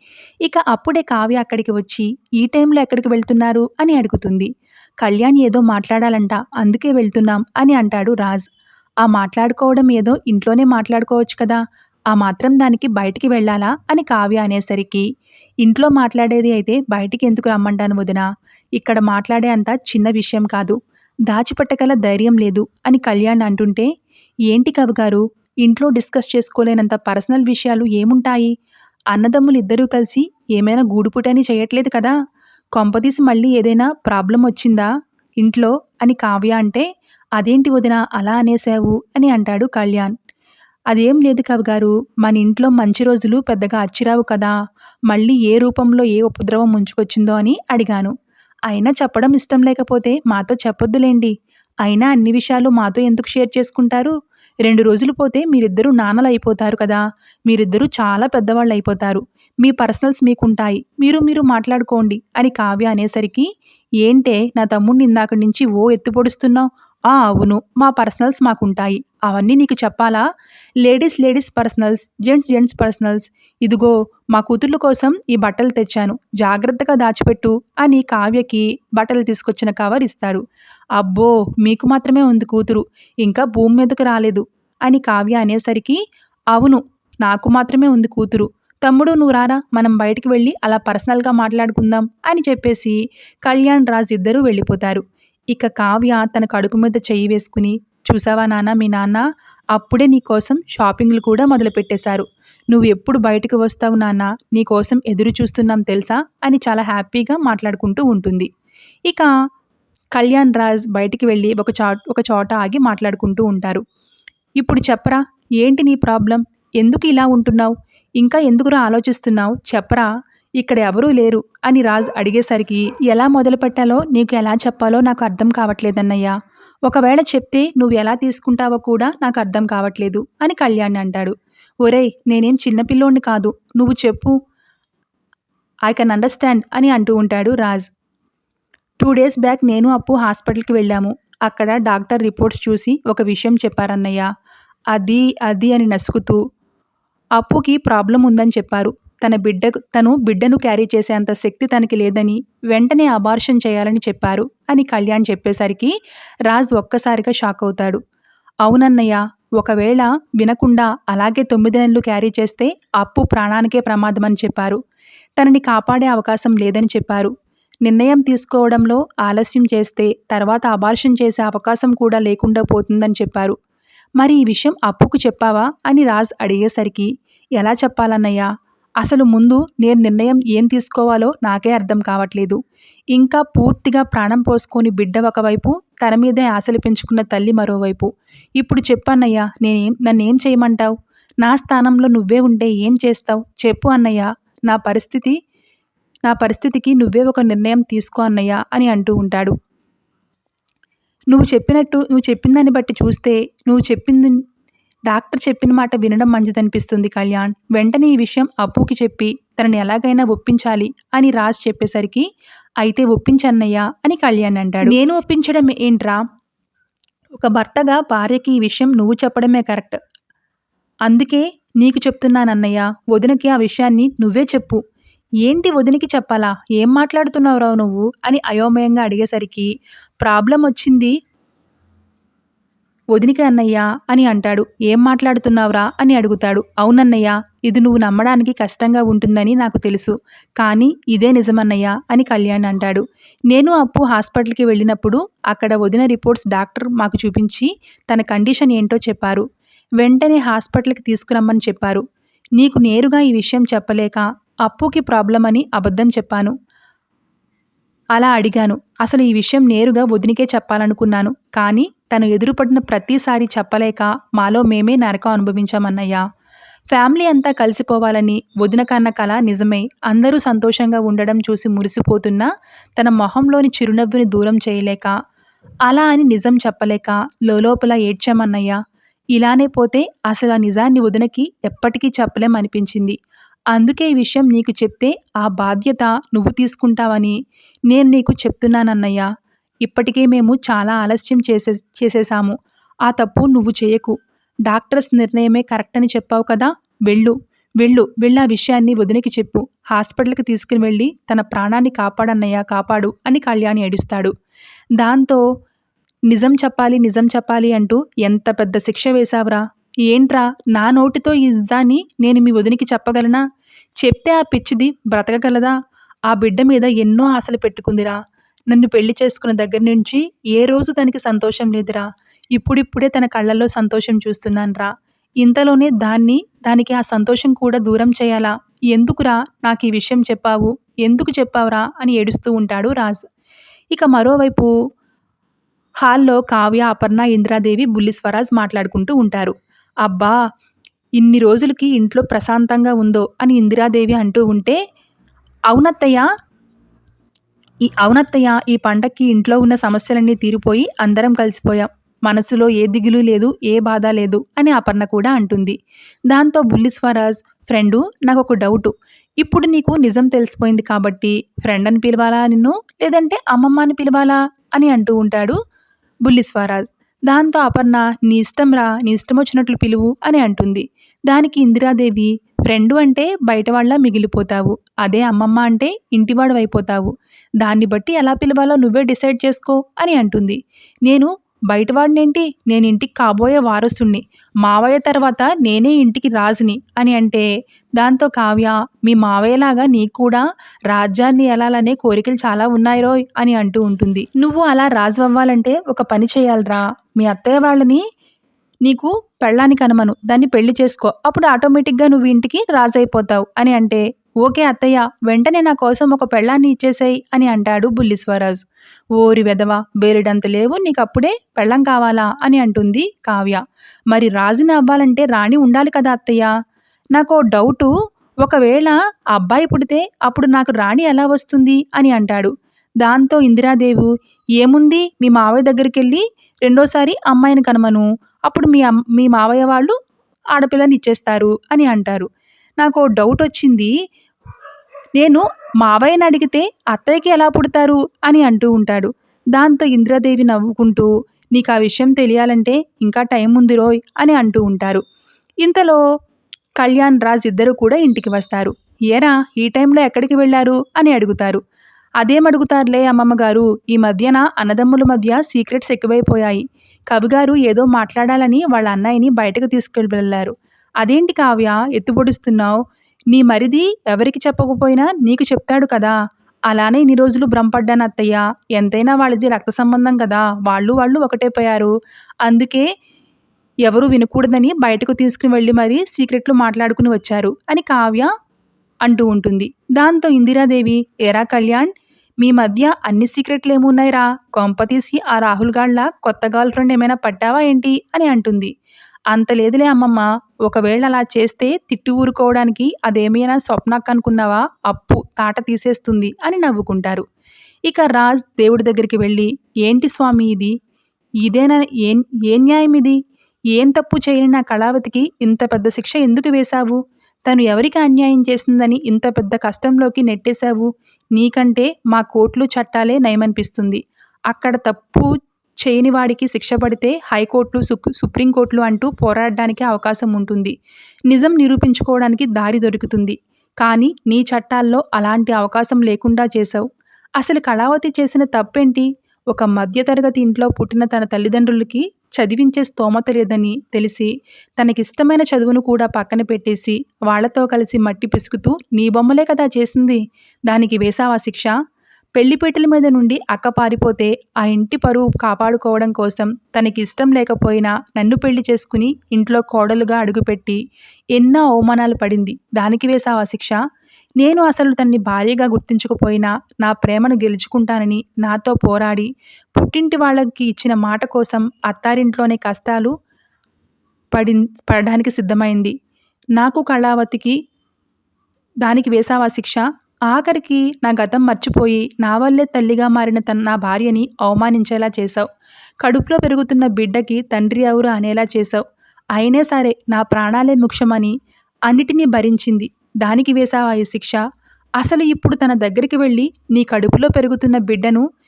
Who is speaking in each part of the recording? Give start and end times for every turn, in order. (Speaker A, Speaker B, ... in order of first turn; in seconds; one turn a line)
Speaker A: 0.4-4.5
Speaker A: 5.0-8.5
Speaker A: 9.0-11.6
Speaker A: 12.1-15.0
Speaker A: 15.6-18.2
Speaker A: 18.8-20.8
Speaker A: 21.3-23.9
Speaker A: 24.5-28.5
Speaker A: 29.1-32.1
Speaker A: 32.7-34.9
Speaker A: 35.4-36.9
Speaker A: 37.4-40.1
Speaker A: 40.9-44.5
Speaker A: 45.1-48.1
Speaker A: 48.7-63.5
Speaker A: 64.0-70.2
Speaker A: 70.8-80.4
Speaker A: 81.0-86.0
Speaker A: 86.5-108.5
Speaker A: 110.1-113.8
Speaker A: 114.6-120.1
Speaker A: 120.6-126.3
Speaker A: 126.9-134.3
Speaker A: 135.9-137.9
Speaker A: 139.0-144.2
Speaker A: 144.9-146.4
Speaker A: 147.4-155.9
Speaker A: 156.5-158.0
Speaker A: 158.6-164.8
Speaker A: 165.4-167.3
Speaker A: 167.8-173.5
Speaker A: 174.2-178.5
Speaker A: 179.0-182.6
Speaker A: 183.1-188.1
Speaker A: 188.6-195.3
Speaker A: 196.3-199.5
Speaker A: 201.3-204.4
Speaker A: 205.1-212.2
Speaker A: 212.8-216.2
Speaker A: 217.3-220.0
Speaker A: 221.1-224.8
Speaker A: 225.4-229.7
Speaker A: 230.2-231.1
Speaker A: 233.1-249.4
Speaker A: 250.0-252.0
Speaker A: 252.6-256.5
Speaker A: 258.1-266.2
Speaker A: 266.9-275.1
Speaker A: 275.9-278.8
Speaker A: 279.3-283.1
Speaker A: 283.7-287.4
Speaker A: 287.9-289.3
Speaker A: 289.8-292.5
Speaker A: 293.1-294.1
Speaker A: 294.7-304.3
Speaker A: 305.0-305.4
Speaker A: 306.3-313.4
Speaker A: 314.0-315.7
Speaker A: 316.3-318.2
Speaker A: 318.7-324.9
Speaker A: 325.4-333.2
Speaker A: 333.9-334.7
Speaker A: 336.0-340.4
Speaker A: 341.2-344.8
Speaker A: 345.7-346.2
Speaker A: 347.8-355.8
Speaker A: 356.3-365.6
Speaker A: 366.2-387.4
Speaker A: 388.0-398.0
Speaker A: 398.8-408.6
Speaker A: 409.2-416.5
Speaker A: 417.1-424.1
Speaker A: 424.6-429.9
Speaker A: 430.5-432.3
Speaker A: 432.8-433.9
Speaker A: 435.2-445.0
Speaker A: 445.6-446.0
Speaker A: 446.8-451.6
Speaker A: 452.2-462.8
Speaker A: 463.3-466.1
Speaker A: 466.7-471.9
Speaker A: 472.4-472.9
Speaker A: 473.9-478.3
Speaker A: 479.0-488.7
Speaker A: 489.3-497.2
Speaker A: 497.9-500.7
Speaker A: 501.4-503.2
Speaker A: 503.7-515.3
Speaker A: 515.8-520.7
Speaker A: 521.3-526.9
Speaker A: 527.4-541.7
Speaker A: 542.4-550.8
Speaker A: 551.3-553.8
Speaker A: 554.4-563.1
Speaker A: 564.3-565.9
Speaker A: 566.5-567.5
Speaker A: 568.8-575.5
Speaker A: 576.0-578.8
Speaker A: 579.3-581.3
Speaker A: 581.9-584.4
Speaker A: 585.0-588.2